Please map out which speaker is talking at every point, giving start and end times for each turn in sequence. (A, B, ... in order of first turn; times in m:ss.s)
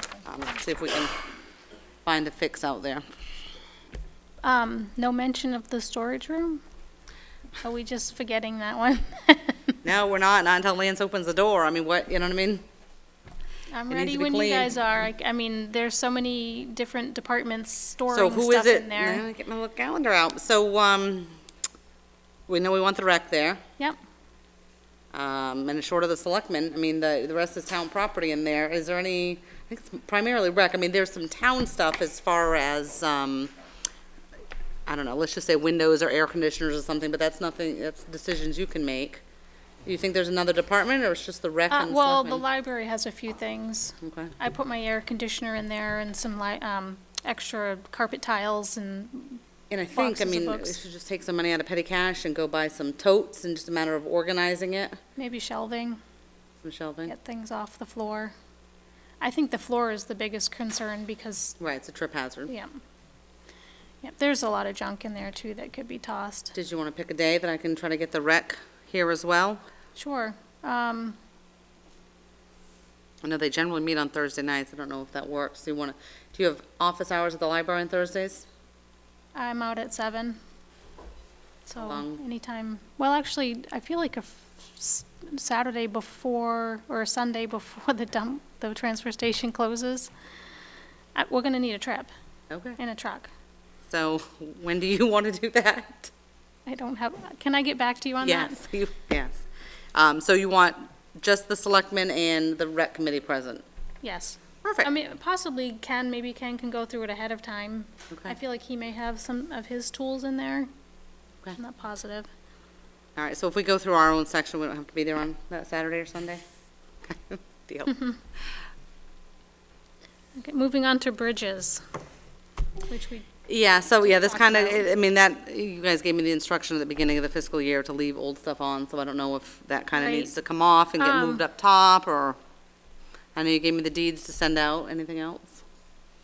0:00.2-0:01.1 A
0:02.0-0:03.1 A
0:04.4-0:06.6 B
0:07.6-0:09.8 B
0:09.8-0:12.6 A
0:13.7-0:19.2 B
0:13.9-0:14.8 A
0:18.1-0:21.4 A
0:22.5-0:23.6 A
0:25.1-0:33.5 A
0:34.9-0:39.2 A
0:39.8-0:42.4 A
0:41.7-0:49.4 B
0:44.0-0:44.3 A
0:49.7-0:55.0 A
0:49.9-0:50.8 B
0:55.2-0:56.0 B
0:56.6-0:57.1 A
0:57.1-0:58.3 B
0:59.2-1:01.6 B
1:01.6-1:02.5 A
1:02.5-1:02.8 B
1:04.0-1:06.5 B
1:06.6-1:09.6 A
1:10.0-1:11.2 B
1:13.2-1:18.5 A
1:19.4-1:20.4 B
1:21.7-1:30.1 B
1:21.8-1:22.2 A
1:31.2-1:32.1 B
1:32.5-1:32.8 A
1:32.8-1:33.3 B
1:33.9-1:36.1 A
1:36.7-1:38.7 B
1:38.2-1:39.4 A
1:40.0-1:43.6 A
1:44.0-1:50.7 B
1:44.6-1:44.9 A
1:51.6-1:52.3 B
1:53.2-1:56.4 A
1:57.0-1:58.0 A
2:00.4-2:01.8 B
2:02.9-2:04.9 B
2:03.5-2:12.4 A
2:10.0-2:10.4 B
2:11.0-2:11.4 B
2:13.4-2:15.6 A